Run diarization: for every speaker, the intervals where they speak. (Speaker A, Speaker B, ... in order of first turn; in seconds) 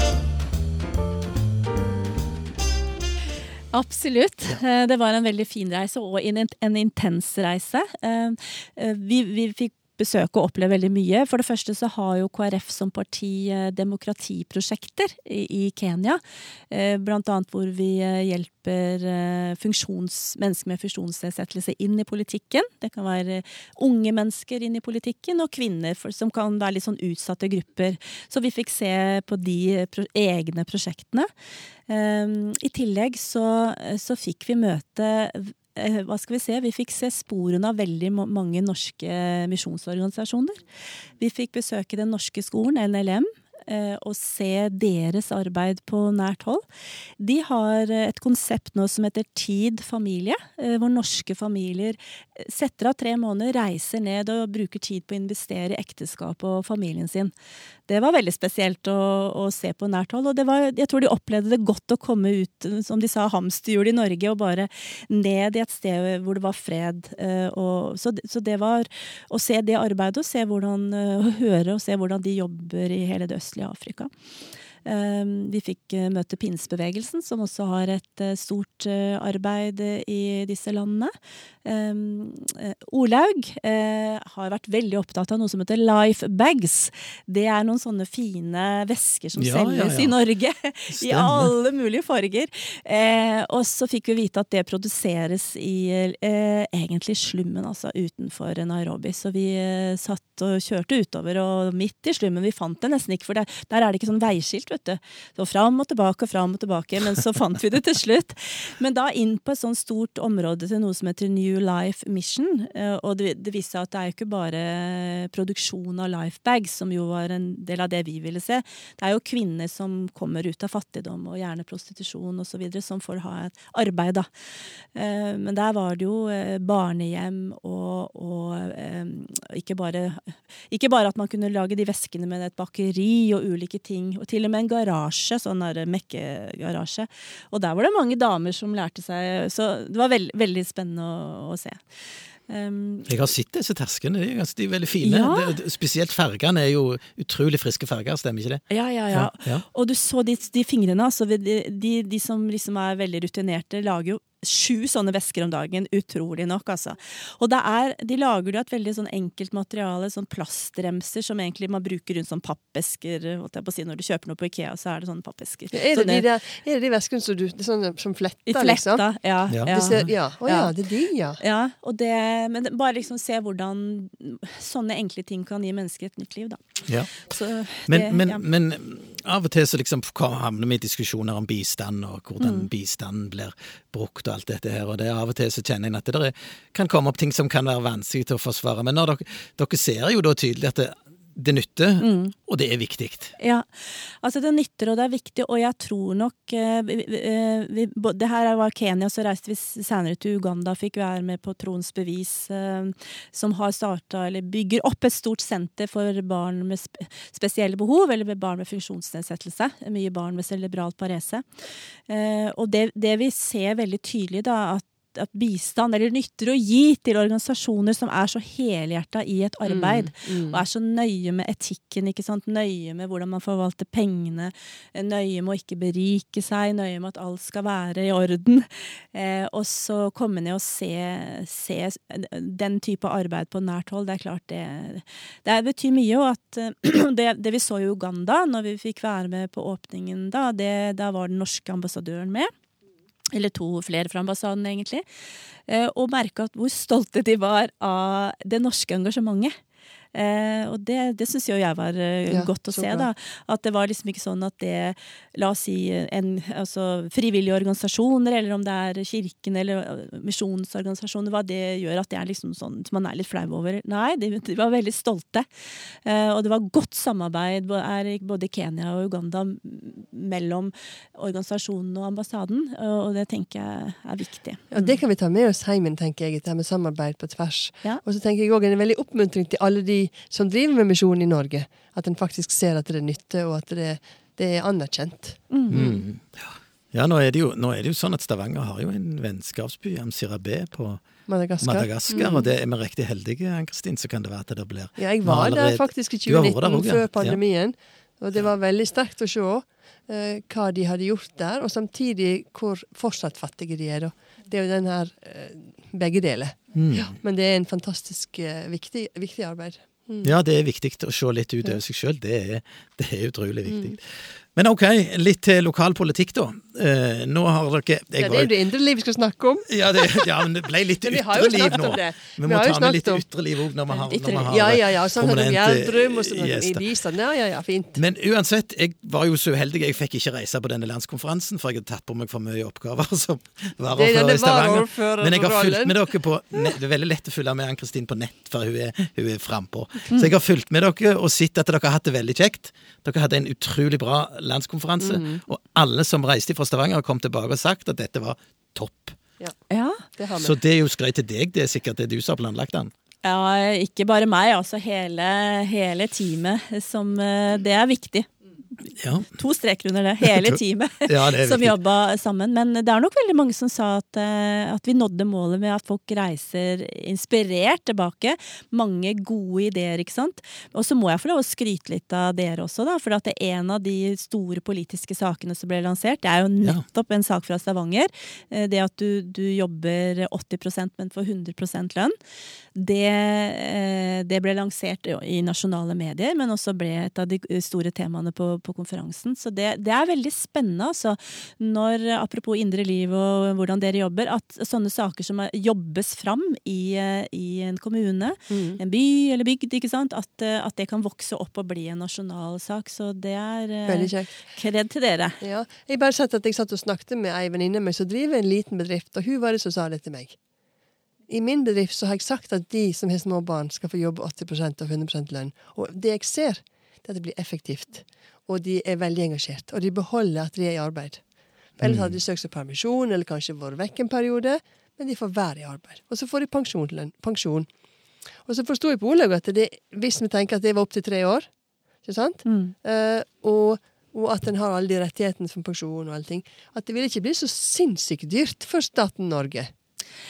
Speaker A: 3.7-31.3, 31.9-40.6, 41.2-46.6, 47.2-57.3, 57.9-74.1, 74.8-81.1, 81.6-124.3, 124.9-141.8, 142.5-143.1, 145.0-145.5, 148.7-166.2, 168.5-170.7, 171.4-178.4, 182.4-182.7, 192.0-192.3, 193.4-242.5, 243.3-245.0, 245.7-249.6, 250.1-265.5, 266.0-275.0, 285.5-285.9, 324.0-324.5, 349.7-350.0, 353.2-358.3, 359.3-382.1, 382.7-405.4, 432.4-432.7
Speaker B: 89.4-90.2, 90.9-91.5, 143.1-149.6, 169.5-170.1, 177.9-193.3, 285.7-291.1, 291.6-297.4, 306.7-307.1, 310.2-318.5, 319.7-326.9, 327.9-349.2, 350.4-352.9, 359.0-359.3, 360.2-361.8, 421.8-422.2
Speaker C: 165.7-169.0, 169.7-171.4, 219.7-220.6, 252.3-253.1, 274.7-286.0, 291.3-292.5, 295.0-310.3, 313.7-313.9, 318.2-320.4, 321.0-323.2, 324.4-328.0, 333.9-335.9, 345.0-345.4, 350.1-350.5, 398.5-398.8, 403.9-404.4, 405.4-410.4, 411.3-421.2, 421.8-427.7, 428.4-431.5, 432.0-439.7